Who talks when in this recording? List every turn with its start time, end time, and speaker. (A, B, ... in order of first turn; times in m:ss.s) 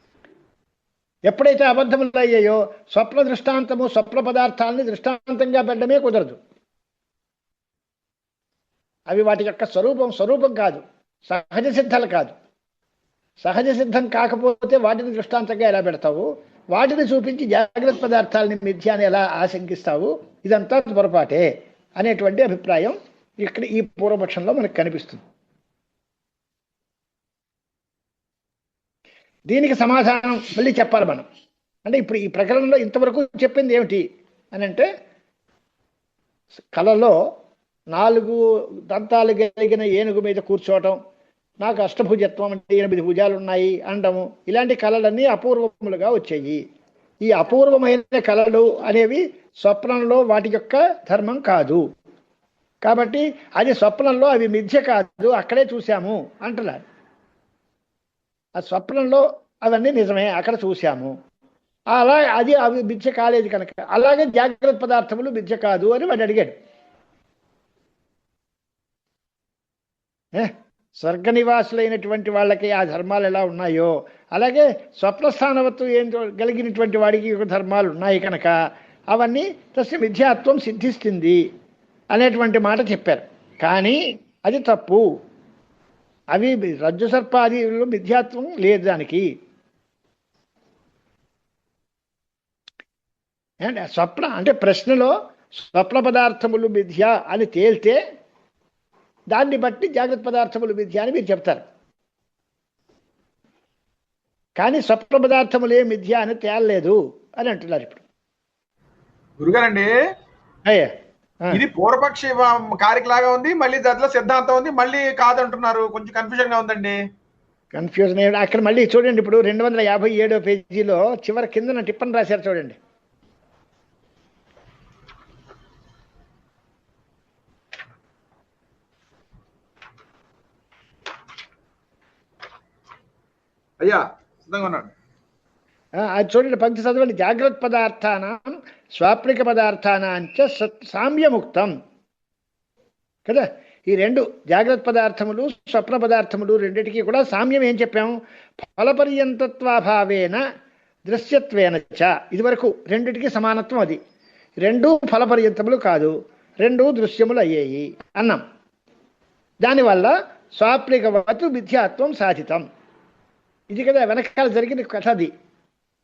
0:01.3-0:06.4 A
0:09.1-0:12.4 A
0:13.4-0:25.2 A
0:29.5-0:31.2 A
0:31.8-0:34.9 A
0:36.7-0:37.2 A
0:37.9-0:41.0 A
0:41.6-0:46.6 A
0:47.2-0:51.8 A
0:52.8-0:56.8 A
0:58.6-1:01.1 A
1:01.9-1:06.6 A
1:10.3-1:18.5 A
1:19.1-1:21.4 A
1:22.1-1:25.0 A
1:26.3-1:29.3 A
1:33.6-1:38.0 A
1:39.3-1:41.6 A
1:44.6-1:48.0 A
1:49.4-1:49.9 B
1:50.6-1:50.9 A
1:51.5-1:57.0 B
1:57.7-2:02.8 A
2:13.8-2:14.9 B
2:16.0-2:21.7 A
2:23.2-2:30.4 A
2:31.0-2:34.0 A
2:34.6-2:38.4 A
2:39.6-2:42.6 A
2:43.7-2:45.3 A